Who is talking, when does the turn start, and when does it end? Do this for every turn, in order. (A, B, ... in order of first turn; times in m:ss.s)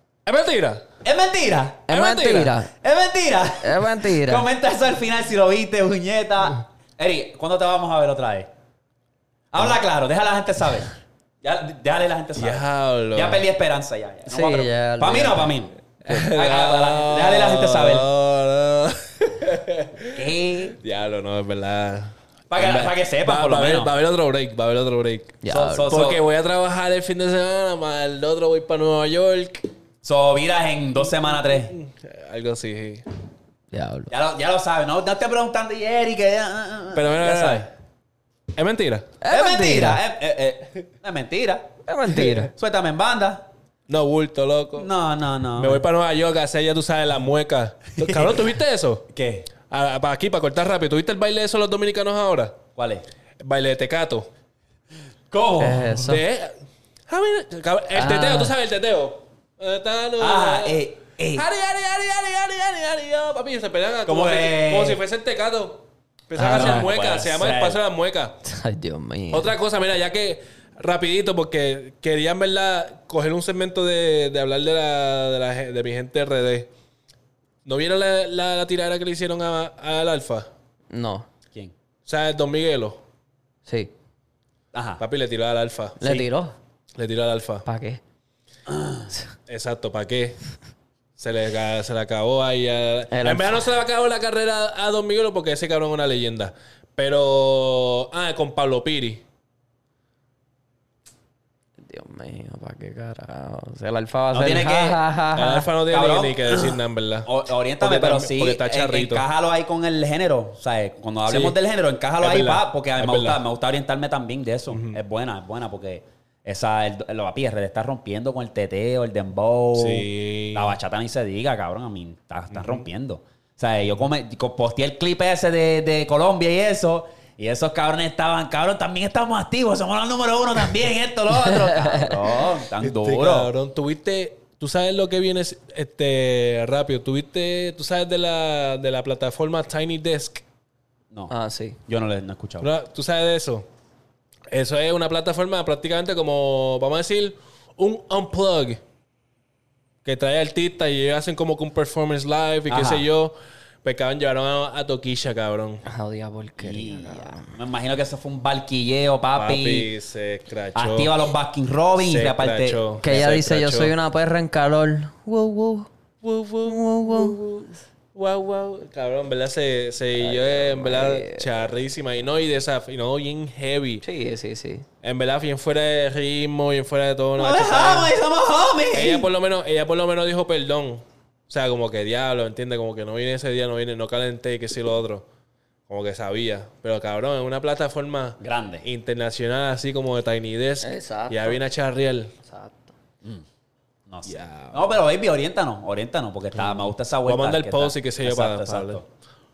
0:00.2-0:00.8 A
0:01.0-0:01.9 B
0:01.9-0:02.7 C
0:01.9-0:02.5 A
0:02.8-0:08.5 B
0:03.6-0:04.5 C
0:09.5-0:10.9 B
0:11.4-0:18.1 B
0:12.4-0:13.4 A
0:14.3-0:15.5 C
0:16.0-0:20.2 A
0:20.1-0:20.8 B
0:20.8-0:29.7 A
0:22.5-0:23.9 B
0:25.4-0:25.9 C
0:25.5-0:26.2 B
0:30.0-0:31.7 B
0:31.5-0:33.0 A
0:33.7-0:34.1 C
0:34.1-0:37.7 B
0:36.9-0:37.7 A
0:38.5-0:39.1 A
0:39.2-0:40.0 C
0:39.3-0:41.7 B
0:41.8-0:42.5 C
0:42.4-0:43.4 B
0:43.9-0:44.9 A
0:44.8-0:45.8 B
0:45.6-0:49.0 A
0:48.0-0:48.5 B
0:49.1-0:49.5 B
0:49.7-0:52.6 A
0:52.8-0:53.0 B
0:53.4-0:54.3 A
0:55.3-0:56.2 B
0:55.6-0:56.2 C
0:56.1-0:56.5 A
0:57.1-1:00.8 A
0:57.9-0:58.5 C
1:00.2-1:01.4 B
1:01.3-1:08.4 A
1:04.0-1:05.0 B
1:06.3-1:06.9 C
1:06.4-1:07.8 B
1:08.4-1:09.5 C
1:09.3-1:16.7 A
1:17.6-1:20.5 A
1:20.9-1:21.3 C
1:22.0-1:23.0 A
1:23.6-1:23.9 C
1:24.7-1:25.0 B
1:25.0-1:26.3 A
1:26.0-1:26.5 C
1:27.0-1:27.6 A
1:27.6-1:28.0 C
1:28.7-1:29.1 B
1:29.5-1:30.4 A
1:31.2-1:39.2 A
1:33.1-1:33.7 C
1:41.8-1:45.7 C
1:44.3-1:45.0 B
1:45.3-1:49.2 A
1:45.9-2:13.5 B
1:51.3-1:51.6 A
1:52.2-1:53.4 A
1:54.7-1:55.0 A
1:59.7-2:00.7 A
2:02.5-2:02.8 A
2:11.4-2:12.3 C
2:12.8-2:20.4 A
2:21.3-2:21.8 C
2:21.9-2:22.7 B
2:22.6-2:23.6 A
2:24.5-2:28.8 A
2:30.0-2:35.8 A
2:32.7-2:33.0 B
2:32.8-2:33.0 C
2:35.8-2:37.5 C
2:36.6-2:39.9 B
2:39.3-2:41.1 A
2:40.7-2:42.8 B
2:42.0-2:43.9 A
2:43.0-2:45.9 C
2:46.2-2:54.0 A
2:46.6-2:47.4 C
2:50.2-2:51.6 C
2:54.0-2:54.8 C
2:55.0-2:58.1 A
2:57.4-2:59.3 B
2:58.9-3:05.2 A
3:05.9-3:12.3 A
3:08.4-3:08.9 B
3:10.8-3:11.6 C
3:12.4-3:12.9 C
3:14.1-3:19.0 B
3:14.2-3:15.0 A
3:17.2-3:19.0 A